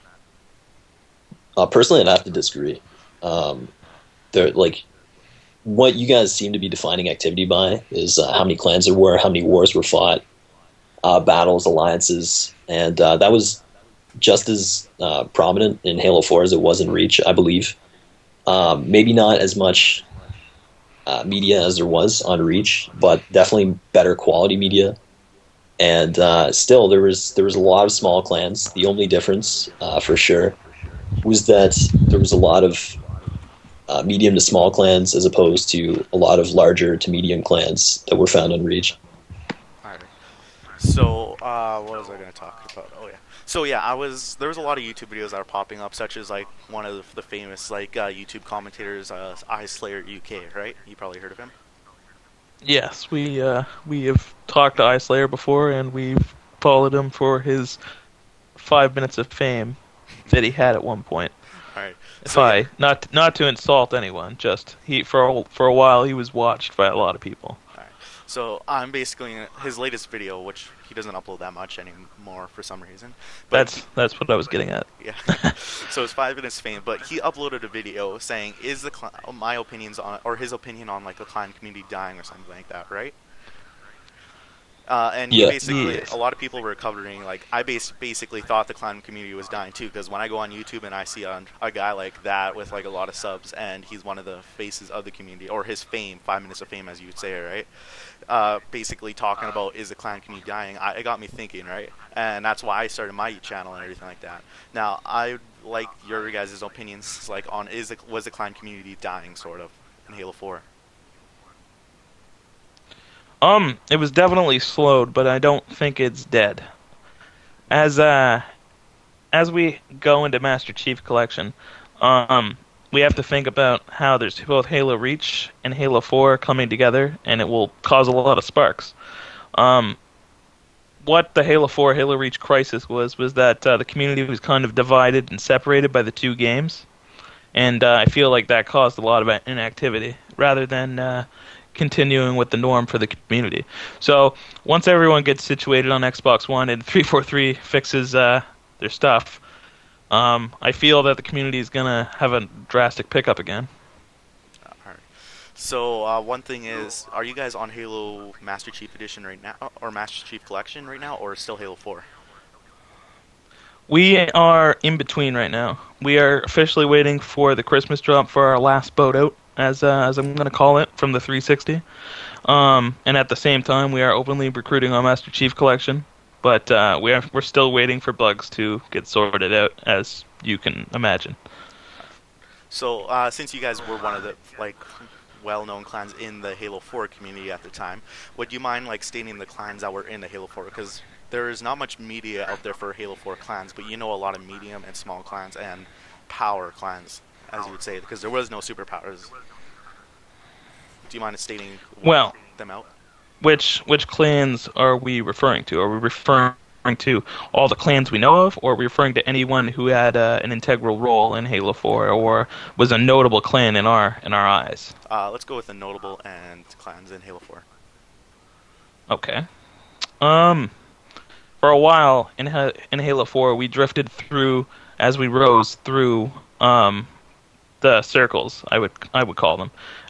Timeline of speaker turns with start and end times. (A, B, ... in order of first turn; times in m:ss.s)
0:01.6-0:03.7 A
0:04.3-0:04.8 A
0:05.6-0:10.2 A
0:11.0-0:13.6 A
0:14.2-0:17.8 A
0:18.5-0:20.0 A
0:21.1-0:25.0 A
0:25.8-0:30.6 A
0:31.2-0:33.0 A
0:33.9-0:38.9 A
0:39.8-0:40.1 B
0:40.8-0:51.5 B
0:52.6-0:57.8 C
0:58.6-1:01.3 C
1:01.7-1:02.6 B
1:02.2-1:07.6 C
1:07.7-1:13.8 B
1:13.5-1:15.5 C
1:15.0-1:23.2 B
1:24.9-1:37.7 B
1:25.3-1:25.9 A
1:25.6-1:26.1 C
1:38.3-1:50.7 B
1:53.4-1:56.7 C
1:57.7-1:58.4 C
1:59.3-2:08.9 C
2:09.5-2:10.0 C
2:11.0-2:16.9 C
2:17.5-2:29.4 C
2:30.1-2:33.7 C
2:34.7-2:42.1 B
2:43.9-2:51.8 C
2:52.4-3:01.4 C
3:02.7-3:19.3 B
3:21.1-3:22.9 B
3:22.0-3:22.4 C
3:23.4-3:34.9 C
3:35.1-3:37.7 B
3:39.1-3:39.4 C
3:40.2-3:40.7 C
3:41.6-3:47.1 C
3:47.8-3:49.7 C